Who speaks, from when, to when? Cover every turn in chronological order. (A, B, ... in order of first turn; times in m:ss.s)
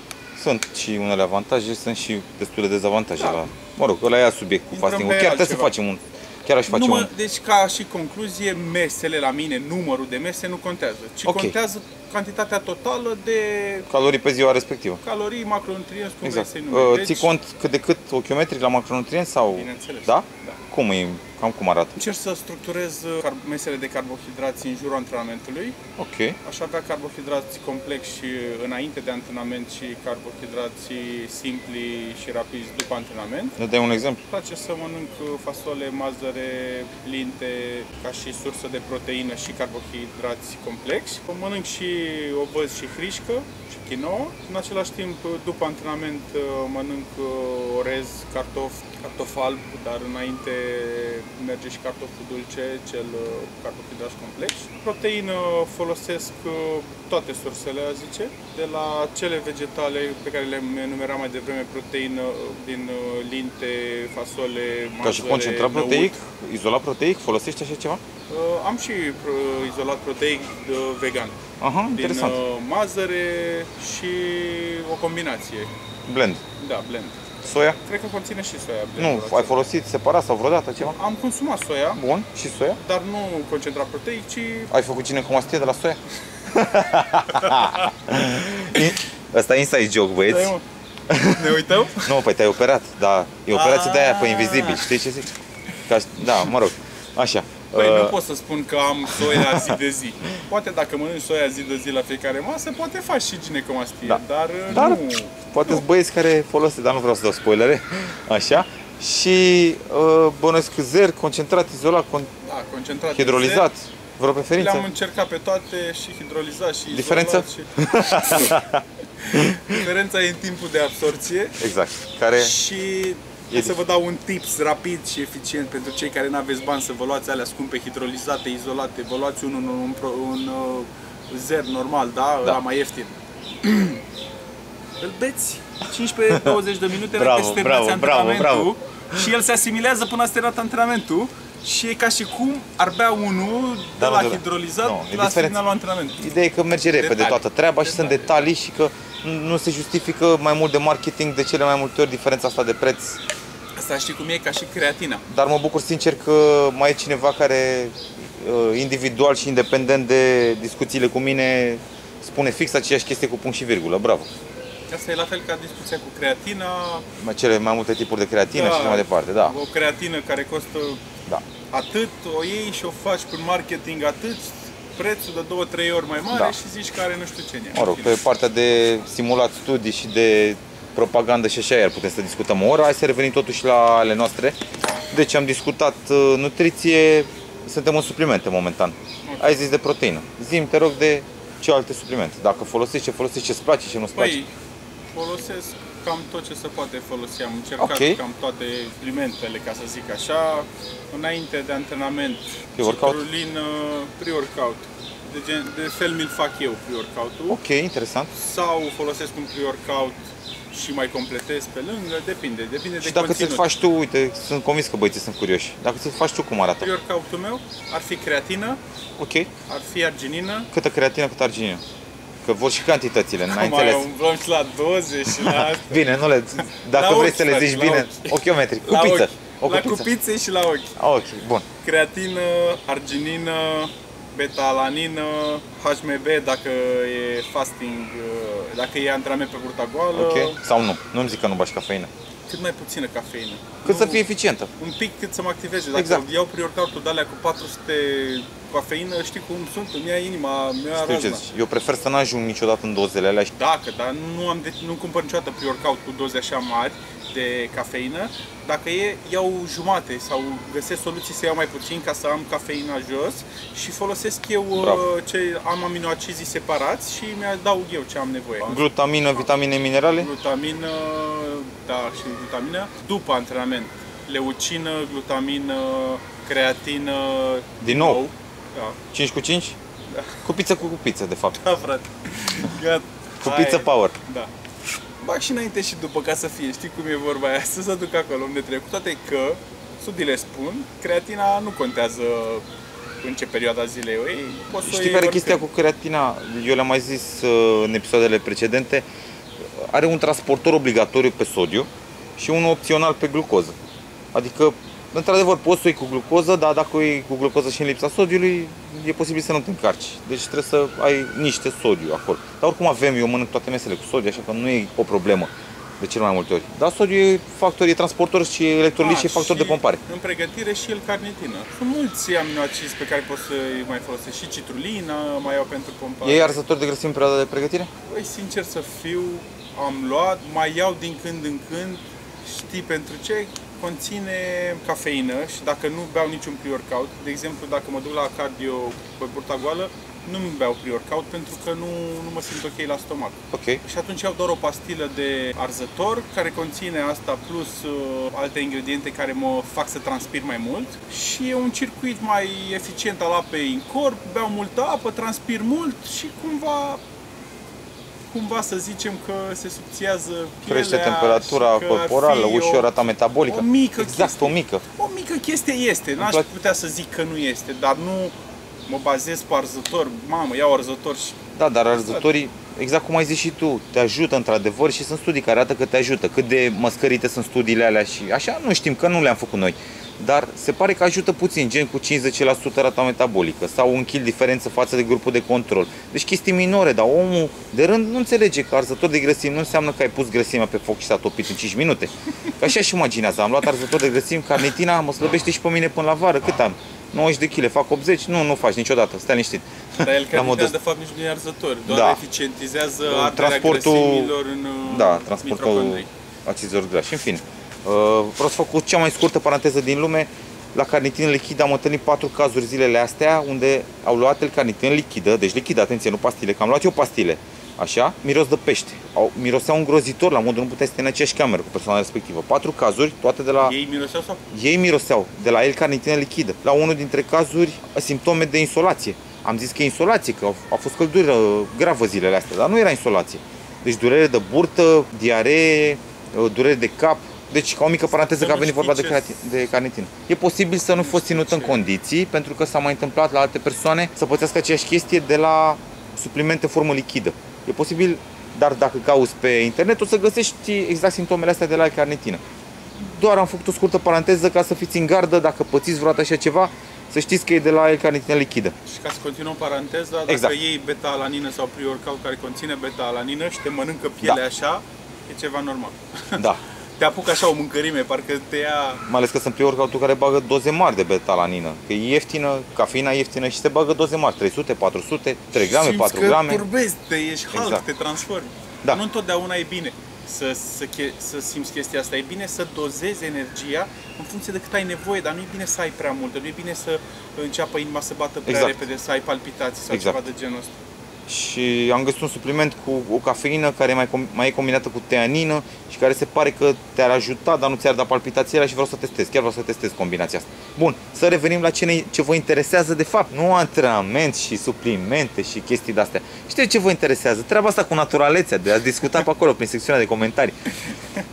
0:00.4-0:07.1 A
0:04.7-0:05.7 B
0:06.7-0:13.9 B
0:11.2-0:11.5 A
0:13.9-0:15.0 A
0:15.0-0:17.3 B
0:16.2-0:22.0 A
0:19.5-0:20.6 B
0:21.9-0:25.8 B
0:26.0-0:26.4 A
0:26.4-0:33.6 B
0:33.6-0:34.2 A
0:34.3-1:06.2 B
1:05.0-1:08.0 A
1:08.3-1:11.4 B
1:11.6-1:12.4 A
1:11.9-1:15.7 B
1:16.1-1:16.4 A
1:16.6-1:17.2 B
1:17.4-1:17.8 A
1:17.8-1:19.6 B
1:19.0-1:21.0 A
1:20.8-1:22.0 B
1:21.9-1:22.8 A
1:22.8-1:24.7 B
1:24.7-1:30.5 A
1:27.3-1:27.9 B
1:30.2-1:30.6 B
1:31.1-1:35.3 A
1:31.3-1:32.1 B
1:33.5-1:34.9 B
1:35.8-1:38.1 A
1:37.7-1:45.8 B
1:39.2-1:39.7 A
1:44.0-1:52.3 A
1:52.4-1:53.7 B
1:53.1-1:54.8 A
1:54.5-1:58.6 B
1:56.9-1:59.8 A
1:59.2-2:01.6 B
2:01.6-2:02.6 A
2:02.4-2:14.0 B
2:03.5-2:03.8 A
2:15.0-2:26.2 B
2:17.1-2:19.2 A
2:24.0-2:25.6 A
2:26.2-2:33.2 A
2:26.9-2:28.4 B
2:33.8-2:35.2 B
2:35.3-2:44.3 A
2:44.9-2:47.0 B
2:47.2-2:49.5 A
2:48.5-2:51.0 B
2:51.7-2:58.2 B
2:57.7-3:04.6 A
3:05.1-3:14.4 A
3:09.2-3:09.6 B
3:14.2-3:14.5 B
3:15.1-3:27.6 B
3:17.8-3:18.2 A
3:22.8-3:23.2 A
3:27.5-3:28.3 A
3:28.3-3:33.7 B
3:33.0-3:36.9 A
3:36.8-3:38.8 B
3:39.2-3:39.5 A
3:39.7-3:40.7 B
3:40.7-3:41.8 A
3:42.4-3:44.1 A
3:43.4-3:50.9 B
3:45.4-3:50.0 A
3:51.0-3:51.6 A
3:51.8-4:00.6 B
4:00.1-4:02.1 A
4:02.5-4:04.2 B
4:03.8-4:04.7 A
4:04.8-4:11.4 B
4:05.9-4:06.2 A
4:10.9-4:13.5 A
4:13.5-4:28.8 B
4:24.8-4:25.0 A
4:28.6-4:30.3 A
4:30.2-4:39.0 B
4:37.8-4:38.2 A
4:39.1-4:39.8 A
4:40.1-4:40.4 B
4:40.4-4:41.6 A
4:41.6-4:44.5 B
4:43.4-4:44.1 A
4:45.2-4:52.6 B
4:53.2-4:55.7 B
4:54.8-4:59.0 A
4:59.8-5:03.7 A
5:04.3-5:20.0 A
5:19.0-5:26.6 B
5:26.2-5:27.9 A
5:28.0-5:57.0 B
5:43.5-5:43.8 A
5:58.3-6:02.9 B
6:00.7-6:04.8 A
6:03.4-6:08.3 B
6:06.2-6:06.4 A
6:08.9-6:11.4 B
6:11.5-6:40.7 A
6:40.0-6:46.1 B
6:41.9-6:42.2 A
6:43.0-7:03.7 A
7:03.6-7:04.4 B
7:04.5-7:32.4 A
7:18.1-7:19.3 B
7:20.9-7:21.8 B
7:33.0-7:38.7 A
7:38.8-7:46.4 B
7:40.3-7:40.5 A
7:46.4-7:46.6 A
7:47.0-7:49.0 B
7:49.1-7:56.6 A
7:55.6-8:10.7 B
7:57.5-7:57.8 A
8:08.4-8:08.8 A
8:09.9-8:10.2 A
8:11.3-8:30.5 A